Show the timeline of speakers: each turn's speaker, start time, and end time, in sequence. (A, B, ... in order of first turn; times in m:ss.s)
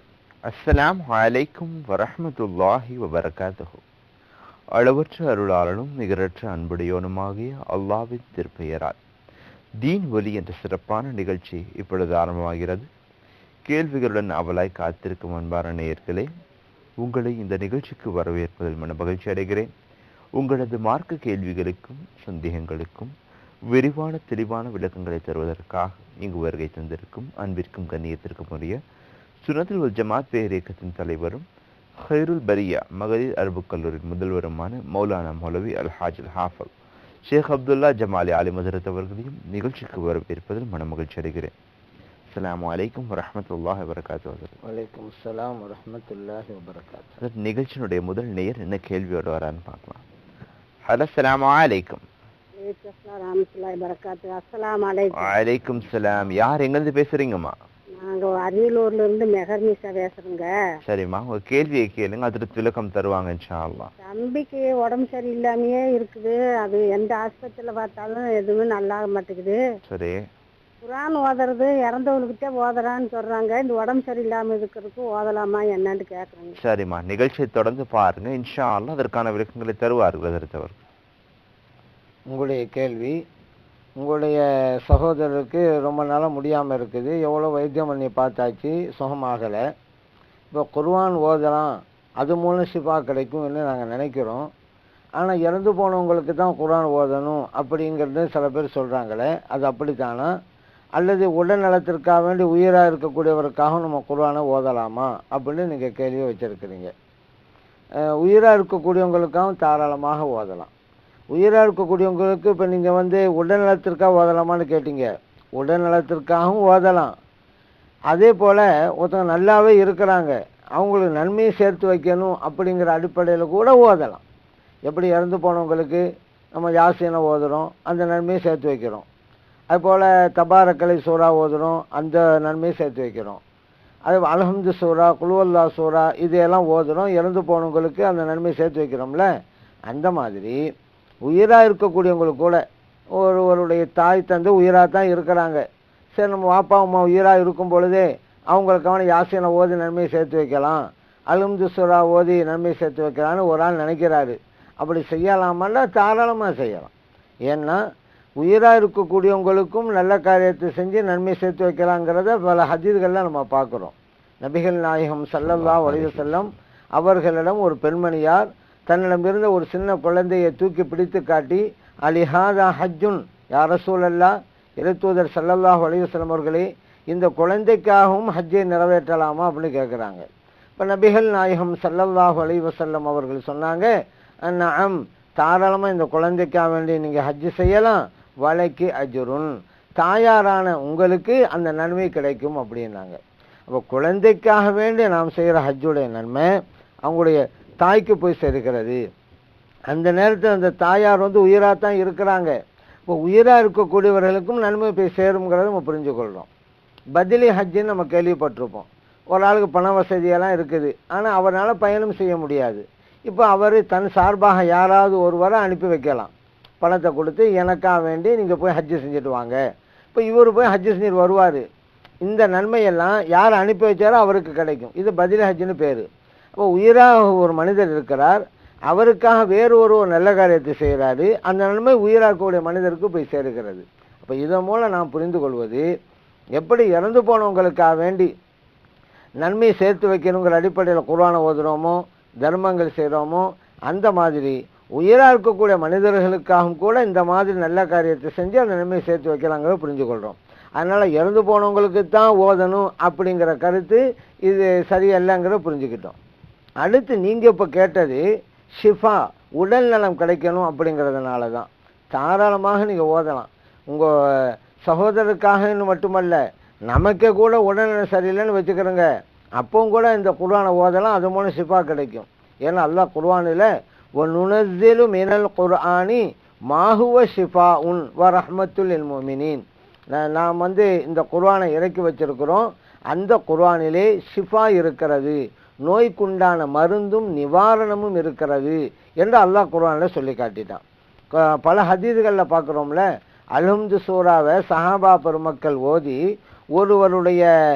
0:00.5-0:03.8 A
0:04.8-0:09.0 A
0:09.8-0:12.9 A
0:13.7-0:16.3 A
0:17.0-0:19.7 A
0:20.4-0:23.1 A
0:23.7-0:28.8 A
0:29.4-0:31.5 A
0:32.0-0:36.7 A
0:37.3-0:41.5 A
0:42.3-0:44.6 A
0:44.7-0:47.2 B
0:47.2-0:50.0 A
0:50.9-0:52.0 A
0:52.6-0:55.3 C
0:55.2-0:57.5 A
0:58.0-1:00.5 C
1:00.8-1:03.9 A
1:04.0-1:09.6 C
1:09.9-1:10.2 A
1:10.8-1:16.6 C
1:16.6-1:20.8 A
1:22.3-1:23.2 B
1:24.0-1:29.6 B
1:30.5-1:34.5 B
1:35.2-1:40.3 B
1:41.0-1:46.9 B
1:48.2-1:50.7 B
1:51.3-1:57.1 B
1:58.1-2:04.2 B
2:04.9-2:09.0 B
2:09.7-2:13.4 B
2:14.1-2:19.3 B
2:19.9-2:20.6 B
2:21.3-2:22.6 B
2:23.2-2:25.6 B
2:26.2-2:36.9 B
2:37.5-2:37.8 B
2:38.4-3:00.3 B
2:45.4-2:46.5 A
3:00.8-3:03.9 B
3:04.5-3:13.2 B
3:13.7-3:16.5 B
3:17.1-3:19.0 B
3:19.9-3:22.6 B
3:23.1-3:26.5 B
3:27.2-3:39.6 B
3:40.1-3:41.6 B
3:42.2-3:55.8 B
3:56.6-3:58.3 B
3:59.4-4:16.2 B
4:16.8-4:18.2 B
4:18.8-4:24.1 B
4:24.9-4:29.1 B
4:29.6-4:39.6 B
4:40.1-4:50.8 B
4:51.3-4:53.0 B
4:53.6-4:56.2 B
4:56.8-4:57.5 B